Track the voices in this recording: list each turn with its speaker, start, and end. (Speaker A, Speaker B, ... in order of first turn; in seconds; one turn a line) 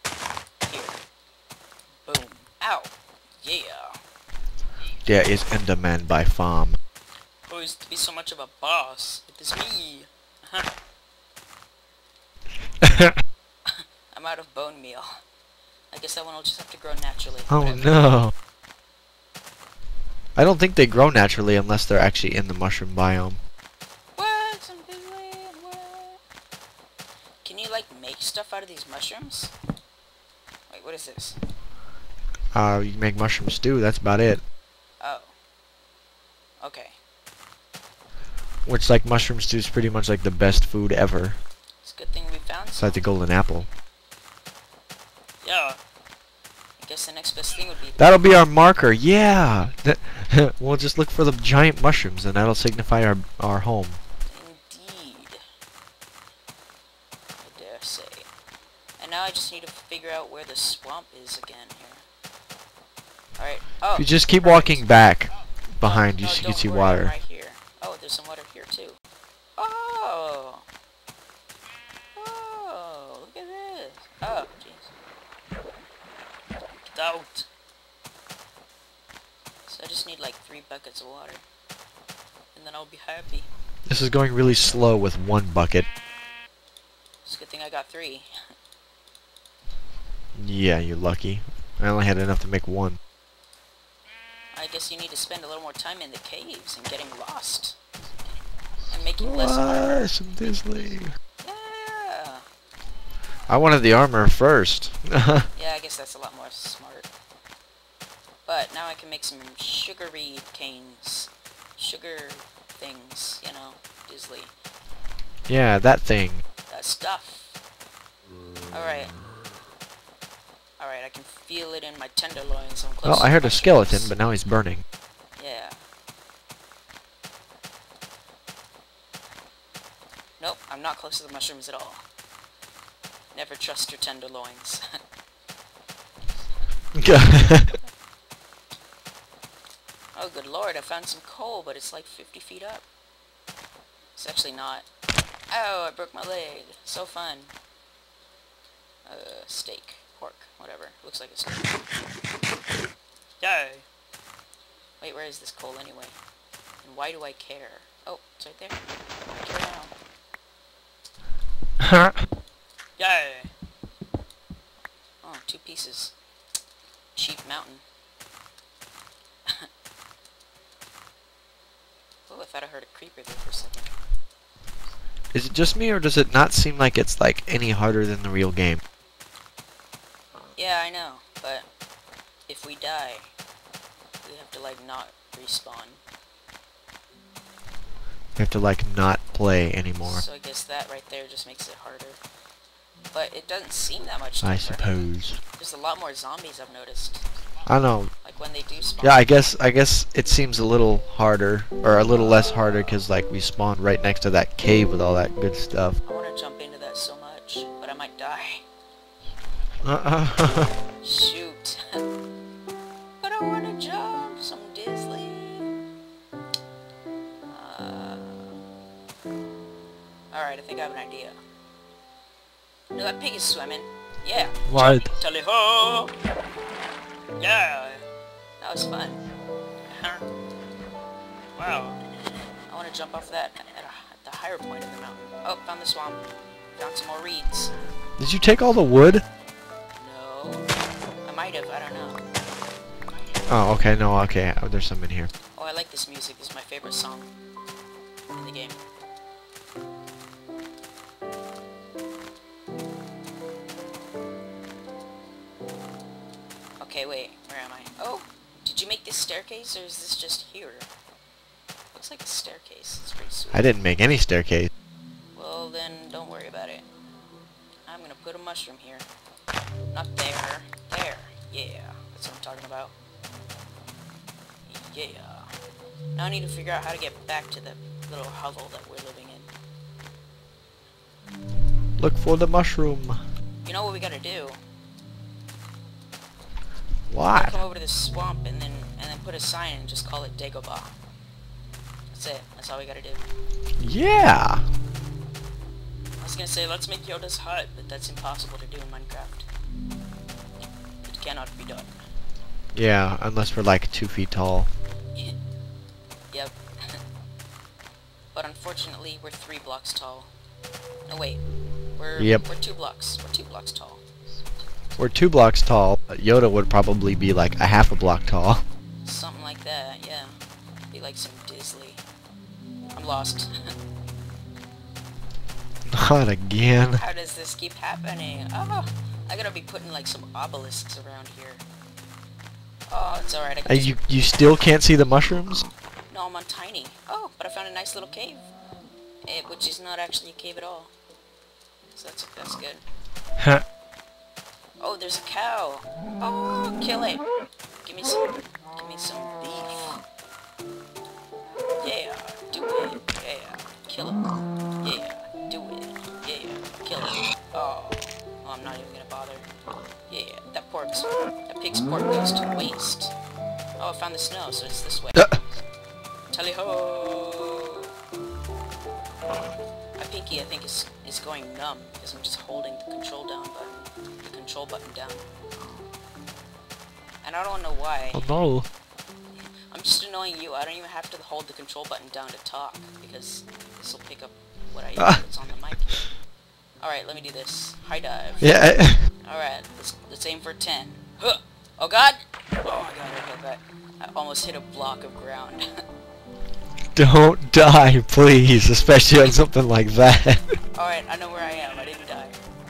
Speaker A: 0.7-1.0
Speaker A: 2.0-4.0
Speaker B: 5.0-6.8
Speaker A: 7.5-10.7
Speaker B: 12.8-13.2
Speaker A: 13.7-15.1
Speaker A: 15.9-18.0
Speaker B: 17.5-18.3
Speaker B: 20.4-23.4
Speaker A: 24.2-26.2
Speaker A: 27.4-29.5
Speaker A: 30.7-31.4
Speaker B: 32.5-34.4
Speaker A: 35.0-35.3
Speaker A: 36.6-37.0
Speaker B: 38.6-41.4
Speaker A: 41.8-43.0
Speaker B: 42.8-43.7
Speaker A: 45.4-45.8
Speaker A: 46.8-48.3
Speaker B: 48.0-54.0
Speaker A: 54.3-55.4
Speaker A: 57.4-58.3
Speaker A: 59.0-62.0
Speaker A: 63.4-64.8
Speaker B: 63.9-67.1
Speaker A: 65.8-69.0
Speaker A: 69.5-70.6
Speaker A: 72.1-74.9
Speaker A: 76.8-77.5
Speaker A: 79.7-81.4
Speaker A: 82.5-83.5
Speaker B: 83.9-85.9
Speaker A: 87.2-88.3
Speaker B: 90.3-93.0
Speaker A: 94.5-97.8
Speaker A: 98.9-100.1
Speaker B: 99.2-101.1
Speaker A: 101.4-102.4
Speaker B: 103.5-105.5
Speaker A: 105.5-107.1
Speaker A: 108.5-114.5
Speaker B: 115.5-116.4
Speaker A: 116.7-117.6
Speaker A: 118.7-119.1
Speaker A: 120.8-124.1
Speaker B: 123.0-124.8
Speaker A: 125.4-125.8
Speaker A: 130.4-132.0
Speaker A: 133.3-134.8
Speaker B: 136.9-137.7
Speaker A: 140.1-142.8
Speaker A: 144.2-144.9
Speaker A: 145.5-147.5
Speaker A: 149.1-151.8
Speaker A: 153.4-153.8
Speaker A: 155.0-156.2
Speaker A: 156.8-158.8
Speaker A: 159.3-159.9
Speaker B: 161.8-162.1
Speaker A: 163.0-163.5
Speaker A: 165.2-166.1
Speaker A: 167.1-167.8
Speaker A: 172.3-173.9
Speaker B: 175.3-178.8
Speaker A: 180.6-181.7
Speaker A: 182.5-183.3
Speaker A: 184.2-186.0
Speaker B: 188.4-190.2
Speaker A: 190.0-192.2
Speaker A: 193.1-197.2
Speaker B: 194.4-195.4
Speaker B: 197.7-198.1
Speaker A: 198.2-199.4
Speaker B: 199.0-206.0
Speaker A: 206.0-208.6
Speaker B: 209.8-210.7
Speaker A: 211.0-212.0
Speaker A: 213.2-215.8
Speaker A: 217.5-218.6
Speaker A: 220.3-221.4
Speaker A: 222.9-226.1
Speaker B: 224.7-225.1
Speaker A: 227.4-228.0
Speaker A: 228.6-229.2
Speaker A: 229.9-230.2
Speaker A: 231.6-232.0
Speaker A: 232.7-236.2
Speaker A: 236.8-237.7
Speaker B: 238.2-239.2
Speaker A: 240.0-240.7
Speaker A: 241.2-242.2
Speaker B: 243.5-245.3
Speaker A: 245.5-247.3
Speaker A: 248.3-248.8
Speaker A: 256.8-260.9
Speaker A: 261.9-263.7
Speaker B: 263.5-264.7
Speaker A: 265.3-266.9
Speaker A: 267.9-269.1
Speaker A: 269.9-272.9
Speaker A: 274.7-275.6
Speaker A: 276.1-279.5
Speaker B: 282.0-283.2
Speaker A: 283.6-284.6
Speaker B: 287.1-287.6
Speaker A: 287.3-290.9
Speaker A: 292.1-293.2
Speaker B: 293.8-294.7
Speaker A: 296.2-299.5
Speaker A: 301.0-302.0
Speaker B: 302.7-304.7
Speaker A: 306.3-307.0
Speaker A: 308.3-310.3
Speaker A: 311.1-311.4
Speaker A: 312.0-314.0
Speaker B: 312.2-312.4
Speaker B: 315.0-318.6
Speaker A: 319.1-320.3
Speaker A: 320.9-322.0
Speaker A: 322.9-323.5
Speaker B: 325.9-327.0
Speaker A: 327.0-331.6
Speaker A: 332.9-333.9
Speaker B: 333.7-335.7
Speaker A: 336.1-338.5
Speaker A: 339.2-340.9
Speaker A: 341.9-342.8
Speaker A: 344.8-347.2
Speaker A: 347.8-350.0
Speaker A: 351.8-354.2
Speaker A: 354.8-359.5
Speaker A: 360.1-363.1
Speaker A: 363.8-365.3
Speaker A: 366.3-367.9
Speaker A: 370.0-375.3
Speaker A: 377.2-378.2
Speaker B: 378.1-378.7
Speaker A: 379.7-386.1
Speaker A: 386.8-388.6
Speaker B: 388.4-389.0
Speaker A: 389.2-395.6
Speaker B: 396.9-400.5
Speaker A: 400.7-402.4